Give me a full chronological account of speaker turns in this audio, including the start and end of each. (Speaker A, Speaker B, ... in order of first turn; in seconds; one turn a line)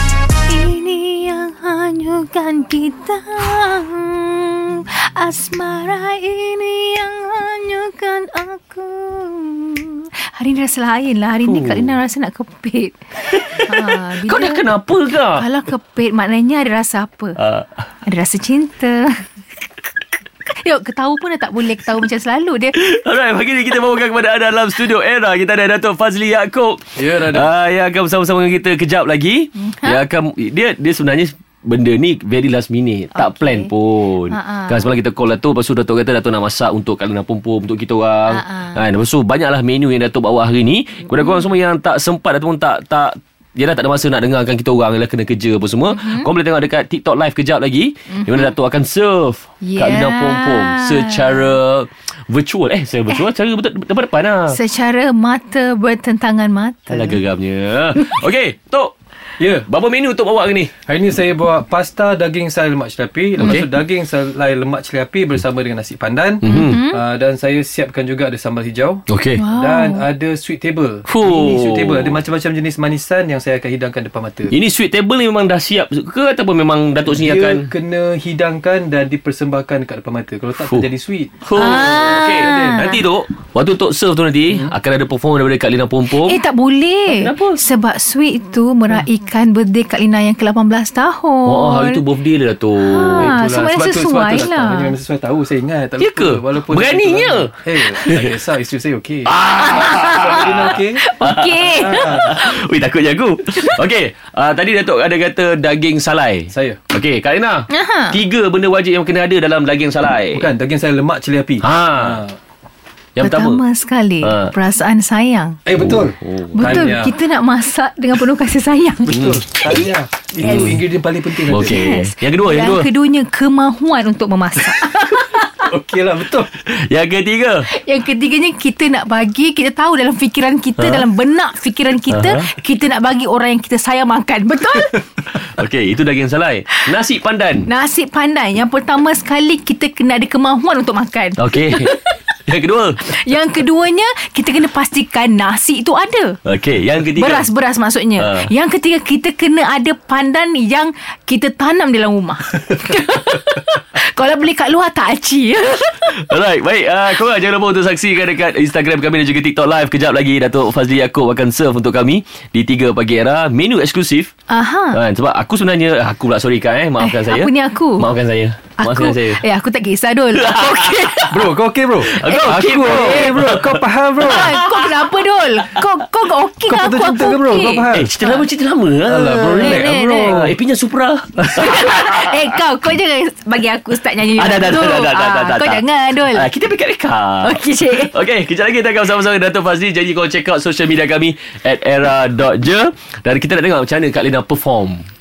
Speaker A: 0.5-14.7
Speaker B: 11.4-12.0
Speaker B: 13.3-15.5
Speaker A: 15.3-17.4
Speaker B: 17.4-17.8
Speaker A: 18.0-19.3
Speaker A: 20.5-22.8
Speaker B: 22.7-54.6
Speaker C: 27.0-27.5
Speaker A: 29.6-30.0
Speaker A: 33.1-33.7
Speaker A: 34.3-34.9
Speaker A: 38.3-38.8
Speaker A: 41.1-41.4
Speaker A: 45.9-46.3
Speaker A: 48.1-48.5
Speaker A: 49.6-51.5
Speaker A: 54.5-57.2
Speaker B: 56.9-58.9
Speaker C: 59.4-59.7
Speaker B: 59.7-60.7
Speaker C: 60.9-74.5
Speaker B: 63.4-63.7
Speaker B: 66.4-66.8
Speaker A: 66.4-67.0
Speaker B: 69.1-69.4
Speaker A: 69.4-70.1
Speaker B: 71.1-72.2
Speaker B: 74.5-77.7
Speaker C: 77.1-83.0
Speaker B: 81.4-86.4
Speaker A: 81.6-83.0
Speaker C: 84.5-84.8
Speaker A: 86.1-92.0
Speaker B: 87.1-87.6
Speaker B: 91.5-93.4
Speaker A: 92.8-95.0
Speaker C: 93.0-101.0
Speaker B: 96.0-98.3
Speaker B: 99.3-110.5
Speaker A: 99.6-102.6
Speaker C: 101.7-102.3
Speaker C: 106.5-106.8
Speaker A: 107.7-108.2
Speaker C: 110.3-112.4
Speaker B: 111.6-112.2
Speaker B: 113.2-113.6
Speaker A: 113.2-115.6
Speaker B: 114.2-114.5
Speaker C: 115.7-117.1
Speaker B: 115.8-116.9
Speaker A: 116.5-119.3
Speaker C: 119.0-121.8
Speaker B: 119.1-119.8
Speaker B: 120.4-120.8
Speaker B: 121.5-122.9
Speaker A: 121.5-125.7
Speaker C: 125.6-126.5
Speaker B: 126.5-127.7
Speaker A: 127.7-135.0
Speaker B: 130.8-131.1
Speaker B: 132.1-132.5
Speaker B: 135.4-137.7
Speaker A: 137.7-142.1
Speaker B: 141.4-143.1
Speaker A: 143.0-146.4
Speaker B: 146.4-147.5
Speaker A: 147.1-156.2
Speaker B: 148.2-148.5
Speaker B: 156.0-164.3
Speaker A: 164.5-165.0
Speaker B: 164.9-169.4
Speaker A: 167.0-168.1
Speaker A: 168.8-171.3
Speaker B: 170.3-171.4
Speaker C: 170.6-174.5
Speaker B: 172.0-174.8
Speaker A: 172.1-172.6
Speaker A: 174.2-178.4
Speaker C: 176.7-178.1
Speaker B: 177.9-182.6
Speaker C: 179.1-180.6
Speaker A: 179.6-180.4
Speaker A: 181.5-186.5
Speaker B: 184.4-195.1
Speaker A: 187.4-188.2